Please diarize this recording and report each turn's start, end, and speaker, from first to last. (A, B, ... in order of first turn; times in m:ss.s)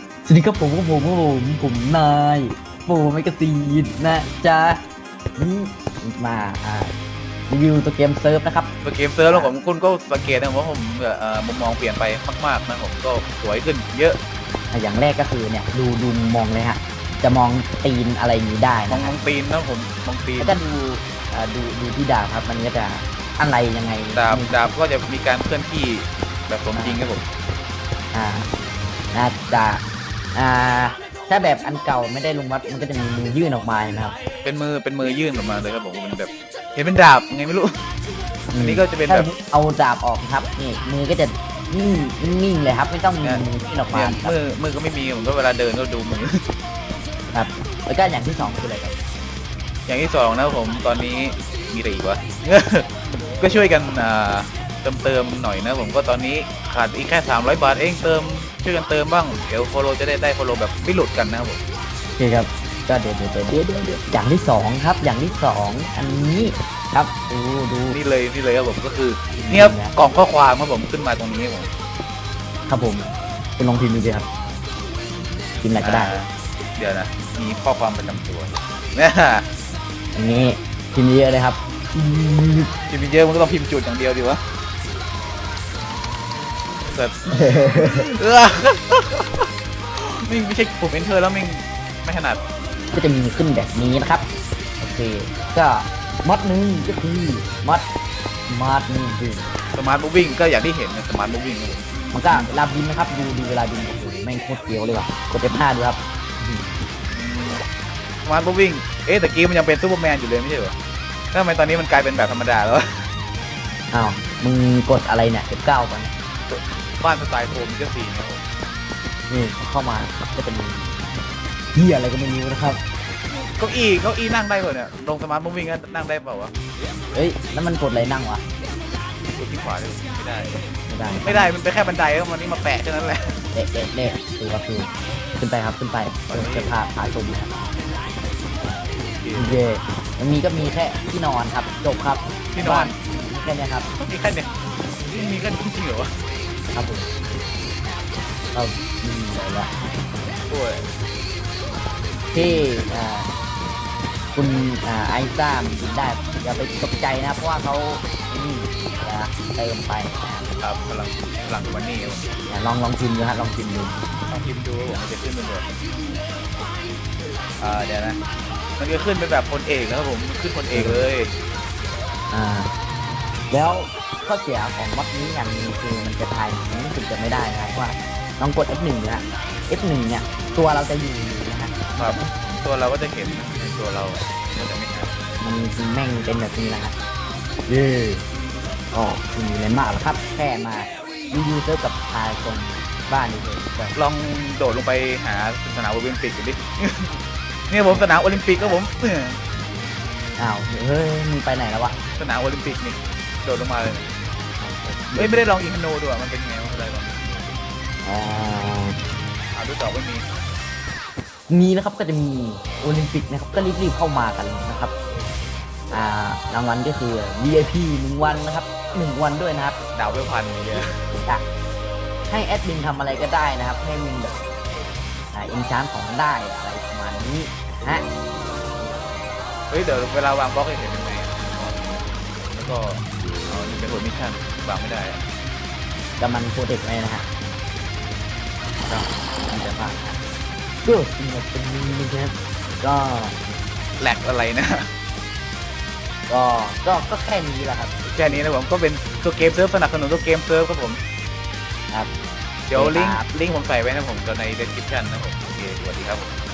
0:00.3-0:04.8 A
0:05.4-0:06.9 A
0:07.5-0:08.7 A
0:08.8-0:14.2 B
0:09.3-0:09.5 A
0:14.7-0:19.1 A
0:18.9-0:20.6 B
0:20.4-0:24.6 A
0:24.2-0:27.2 B
0:26.7-0:27.0 A
0:28.1-0:28.5 A
0:29.1-0:29.8 A
0:30.4-0:34.2 A
0:34.4-0:37.7 B
0:38.5-0:44.4 A
0:38.6-0:39.3 B
0:43.2-0:46.4 B
0:47.3-0:49.0 A
0:49.9-1:01.6 B
1:02.2-1:08.0 A
1:07.9-1:11.7 B
1:09.4-1:09.9 A
1:12.7-1:14.3 A
1:15.6-1:16.1 A
1:15.8-1:19.4 B
1:20.2-1:22.7 A
1:22.9-1:24.4 B
1:26.9-1:32.4 B
1:27.3-1:28.1 A
1:32.9-1:34.3 A
1:34.8-1:37.9 A
1:38.5-1:39.5 A
1:39.7-1:42.5 B
1:42.1-1:46.8 A
1:47.1-1:47.6 B
1:48.2-1:50.8 B
1:51.3-1:53.1 B
1:53.9-1:56.1 A
1:56.5-1:58.4 B
1:59.3-2:01.0 A
2:01.8-2:02.8 A
2:03.3-2:06.5 B
2:07.1-2:08.4 A
2:09.4-2:10.6 B
2:10.9-2:11.5 A
2:11.2-2:13.4 B
2:13.5-2:17.5 A
2:16.3-2:16.7 B
2:19.0-2:19.6 B
2:19.3-2:23.9 A
2:22.5-2:22.9 B
2:24.0-2:24.5 B
2:25.1-2:26.2 B
2:26.7-2:27.1 A
2:28.5-2:29.7 A
2:30.5-2:30.9 B
2:32.3-2:33.3 A
2:32.3-2:32.7 B
2:34.4-2:40.5 A
2:40.6-2:42.4 B
2:42.5-2:44.0 A
2:44.3-2:45.7 B
2:47.6-2:48.2 B
2:48.8-2:51.3 B
2:50.7-2:51.1 A
2:52.3-2:52.7 A
2:53.5-3:02.3 A
3:02.0-3:05.1 B
3:05.4-3:06.9 A
3:07.7-3:08.2 A
3:08.9-3:14.0 A
3:14.0-3:17.2 B
3:17.7-3:19.4 B
3:17.9-3:18.8 A
3:20.4-3:22.0 A
3:22.2-3:24.1 B
3:24.6-3:25.5 A
3:25.2-3:27.6 B
3:28.0-3:29.0 A
3:29.5-3:30.2 B
3:31.5-3:34.9 A
3:35.9-3:39.8 A
3:40.0-3:40.8 B
3:41.1-3:41.4 A
3:42.3-3:44.4 A
3:45.3-3:48.1 A
3:49.7-3:55.2 B
3:56.2-3:57.3 A
3:58.8-4:00.2 A
4:00.8-4:03.6 A
4:04.0-4:04.8 B
4:06.3-4:08.5 A
4:08.1-4:11.0 B
4:12.7-4:16.3 B
4:12.7-4:13.3 A